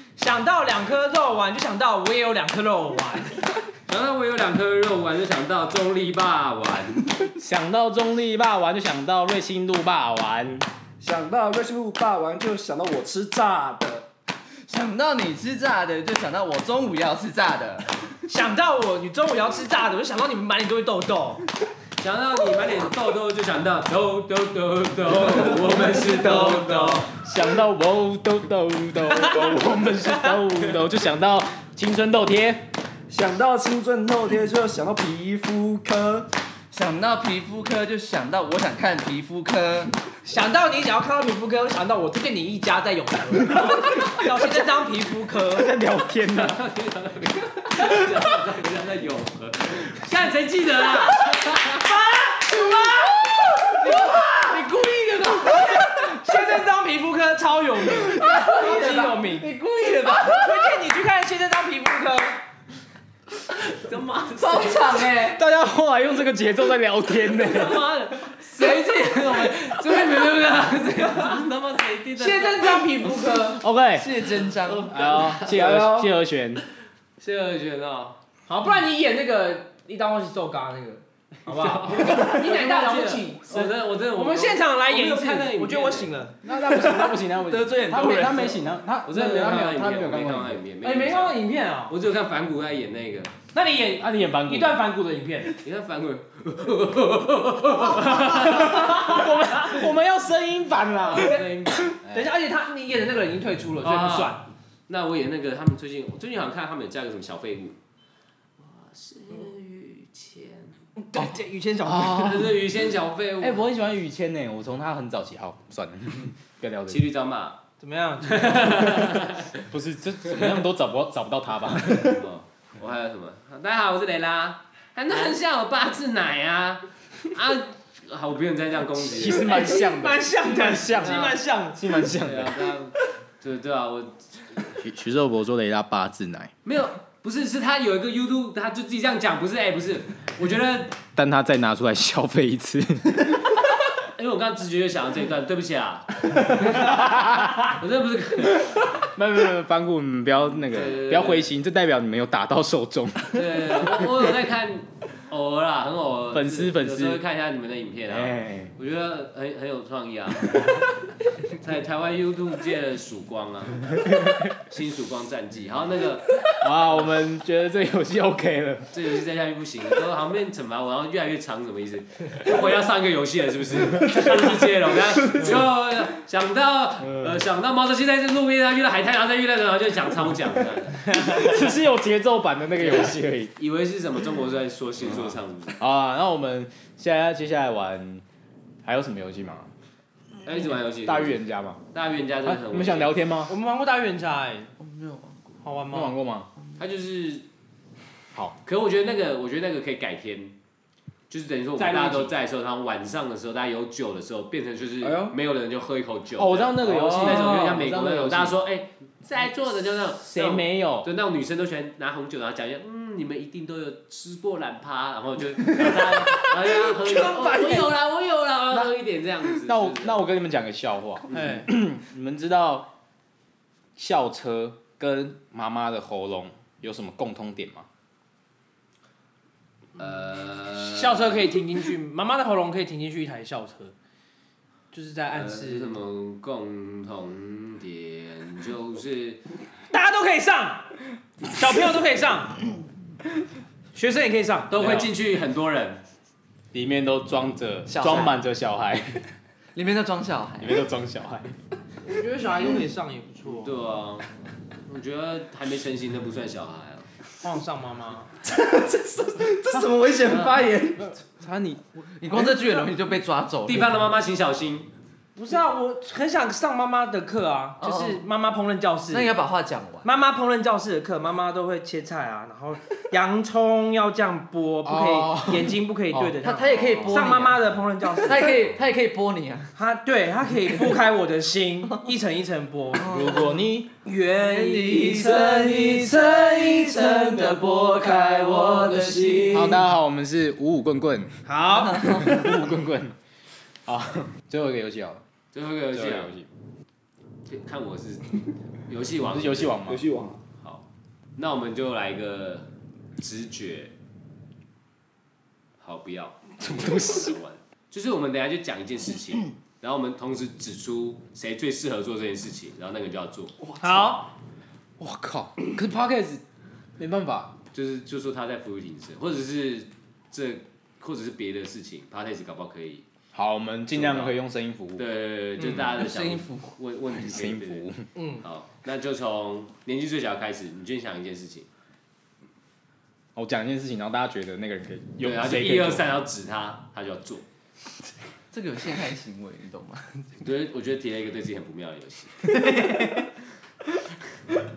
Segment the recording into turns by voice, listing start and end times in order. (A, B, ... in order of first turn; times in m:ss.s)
0:00.2-0:03.4 A
0:03.9-0:07.0 B
0:07.3-0:10.6 C
0:11.0-0:14.0 D
0:14.7-0:17.9 E
0:18.3-0:21.4 A
0:22.0-0:27.1 B
0:25.6-0:27.0 A
0:27.1-0:32.6 C
0:29.2-0:29.5 A
0:33.1-0:36.3 D
0:36.7-0:40.0 E
0:40.2-0:45.7 A
0:43.5-0:44.4 C
0:45.4-0:46.6 C
0:46.3-0:51.8 B
0:51.3-0:53.3 A
0:52.5-0:56.4 E
0:55.2-0:59.5 A
0:58.0-1:00.8 E
1:00.2-1:02.4 A
1:03.7-1:05.1 B
1:04.4-1:05.4 E
1:05.3-1:07.9 C
1:07.4-1:12.8 B
1:08.5-1:10.1 E
1:12.2-1:13.6 A
1:13.4-1:14.3 C
1:13.9-1:15.0 E
1:14.6-1:15.8 B
1:14.8-1:16.6 C
1:15.5-1:16.1 D
1:17.2-1:18.2 B
1:18.5-1:26.5 A
1:21.5-1:26.1 B
1:26.4-1:30.6 C
1:26.8-1:28.7 E
1:29.0-1:33.3 B
1:30.8-1:31.9 A
1:33.5-1:35.6 A
1:34.0-1:34.8 C
1:35.6-1:39.3 B
1:38.0-1:41.4 C
1:38.6-1:39.3 A
1:41.0-1:42.0 B
1:41.3-1:44.4 A
1:42.0-1:42.3 C
1:43.8-1:47.8 B
1:48.6-1:50.8 B
1:51.0-1:52.5 A
1:51.8-1:52.5 C
1:52.0-1:53.6 B
1:53.4-1:57.0 C
1:56.9-1:57.6 B
1:57.8-1:59.0 A
1:58.2-1:59.6 B
1:59.6-2:02.2 C
2:02.0-2:09.5 B
2:09.0-2:12.7 C
2:09.3-2:11.8 A
2:11.0-2:11.4 B
2:12.2-2:14.7 B
2:14.8-2:16.5 C
2:16.6-2:21.0 B
2:21.1-2:23.5 C
2:24.2-2:27.0 B
2:26.6-2:27.7 C
2:27.7-2:28.8 B
2:29.0-2:34.1 C
2:30.7-2:31.5 B
2:33.3-2:40.8 B
2:36.3-2:37.2 C
2:38.1-2:38.7 C
2:41.4-2:44.0 B
2:44.0-2:44.4 C
2:44.6-2:47.0 B
2:46.5-2:48.9 C
2:48.9-3:01.2 B
2:57.0-2:57.4 C
3:01.1-3:03.5 C
3:02.8-3:05.8 B
3:05.8-3:08.2 C
3:08.8-3:09.7 C
3:10.4-3:11.4 B
3:11.0-3:11.8 C
3:11.9-3:13.1 B
3:12.4-3:13.5 C
3:13.5-3:14.7 A
3:14.8-3:15.3 E
3:15.6-3:16.1 A
3:15.9-3:16.5 C
3:16.8-3:17.4 B
3:18.6-3:20.5 B
3:21.3-3:40.2 B
3:21.8-3:22.3 A
3:25.0-3:25.4 D
3:26.4-3:28.6 C
3:30.2-3:31.1 C
3:39.4-3:42.9 C
3:41.3-3:41.6 B
3:41.3-3:41.7 A
3:44.0-3:47.8 C
3:50.0-3:51.6 B
3:50.7-3:53.9 A
3:54.9-3:56.0 A
3:55.3-3:59.4 B
3:59.9-4:00.9 A
4:01.5-4:02.6 A
4:03.9-4:05.0 A
4:04.7-4:06.0 B
4:04.8-4:05.1 C
4:06.7-4:09.2 C
4:07.9-4:08.4 E
4:09.7-4:10.8 E
4:10.6-4:11.5 C
4:12.0-4:13.7 A
4:13.5-4:14.2 B
4:14.9-4:17.1 B
4:17.4-4:18.3 A
4:18.4-4:21.1 D
4:20.2-4:20.6 E
4:21.0-4:22.6 C
4:22.2-4:24.0 E
4:23.6-4:24.9 B
4:25.4-4:29.4 A
4:27.8-4:28.2 E
4:29.1-4:30.1 E
4:30.0-4:38.6 A
4:34.8-4:36.4 C
4:36.4-4:37.6 E
4:38.2-4:39.7 E
4:39.8-4:43.4 A
4:42.9-4:49.8 E
4:43.1-4:43.9 C
4:44.5-4:45.1 A
4:49.0-4:49.5 D
4:49.5-4:51.4 C
4:51.4-4:52.3 A
4:51.8-4:52.5 E
4:52.0-4:53.2 C
4:53.8-4:55.2 C
4:55.5-4:56.3 B
4:55.9-4:56.5 C
4:57.5-4:59.8 B
4:59.3-5:00.0 C
4:59.8-5:00.4 D
5:01.4-5:03.9 B
5:05.8-5:13.5 B
5:06.6-5:07.4 C
5:13.6-5:14.1 E
5:13.8-5:14.3 A
5:15.0-5:16.4 C
5:17.0-5:17.5 C
5:17.7-5:23.0 B
5:23.3-5:25.0 C
5:23.9-5:24.4 B
5:25.0-5:27.9 B
5:25.9-5:26.7 E
5:27.1-5:28.0 C
5:28.2-5:28.4 A
5:28.4-5:31.7 B
5:33.4-5:36.1 C
5:35.2-5:37.4 B
5:38.5-5:40.3 E
5:40.4-5:42.3 B
5:42.6-5:43.1 E